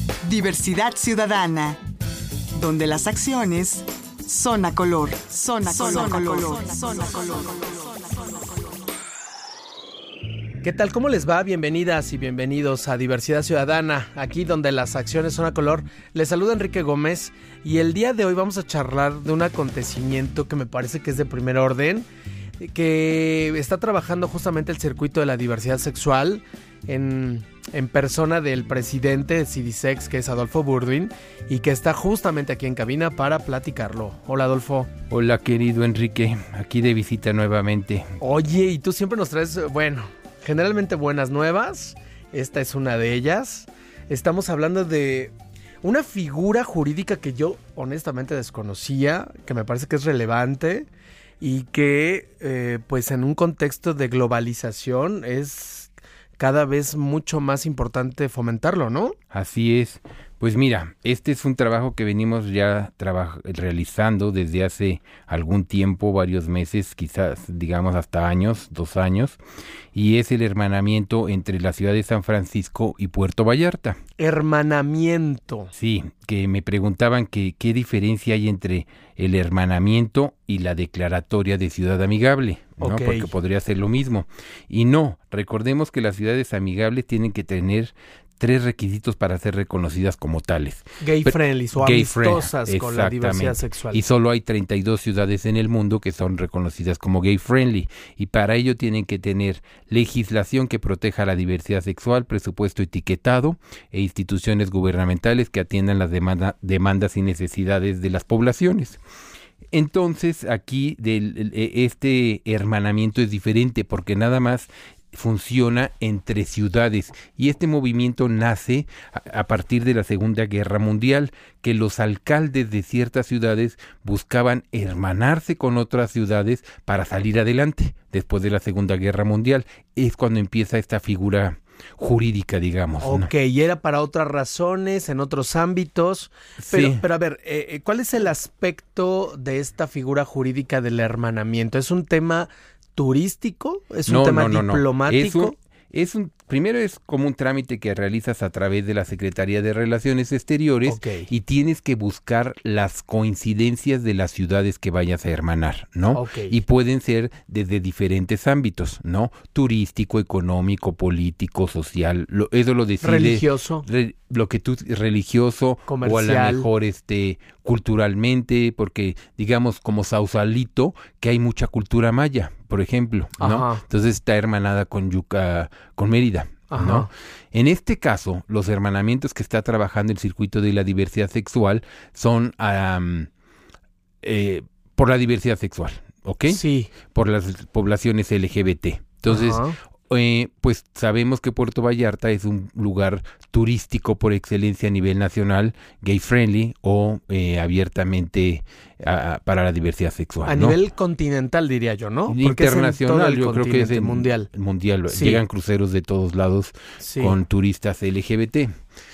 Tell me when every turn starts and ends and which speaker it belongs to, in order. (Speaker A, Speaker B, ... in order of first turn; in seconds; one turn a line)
Speaker A: 0.2-1.8
Speaker A: 2.5-8.2
Speaker B: 10.6-22.1
Speaker B: 22.6-34.9
Speaker C: 35.1-38.1
Speaker B: 38.2-50.9
Speaker B: 51.4-59.1
Speaker C: 59.3-69.4
Speaker C: 69.9-74.0
Speaker B: 74.2-75.7
Speaker C: 75.7-109.0
Speaker B: 82.8-83.3
Speaker B: 91.0-94.0
Speaker C: 109.7-133.3
Speaker B: 133.0-145.5
Speaker C: 136.6-137.0
Speaker C: 144.1-183.3
Speaker B: 150.8-151.3
Speaker B: 156.1-156.6
Speaker B: 163.0-163.8
Speaker B: 165.9-166.7
Speaker B: 173.4-173.8
Speaker B: 176.7-177.1
Speaker C: 184.2-200.8
Speaker B: 186.5-186.9
Speaker B: 189.3-189.8
Speaker B: 200.4-204.5
Speaker C: 202.3-208.7
Speaker B: 205.1-205.4
Speaker B: 207.0-207.3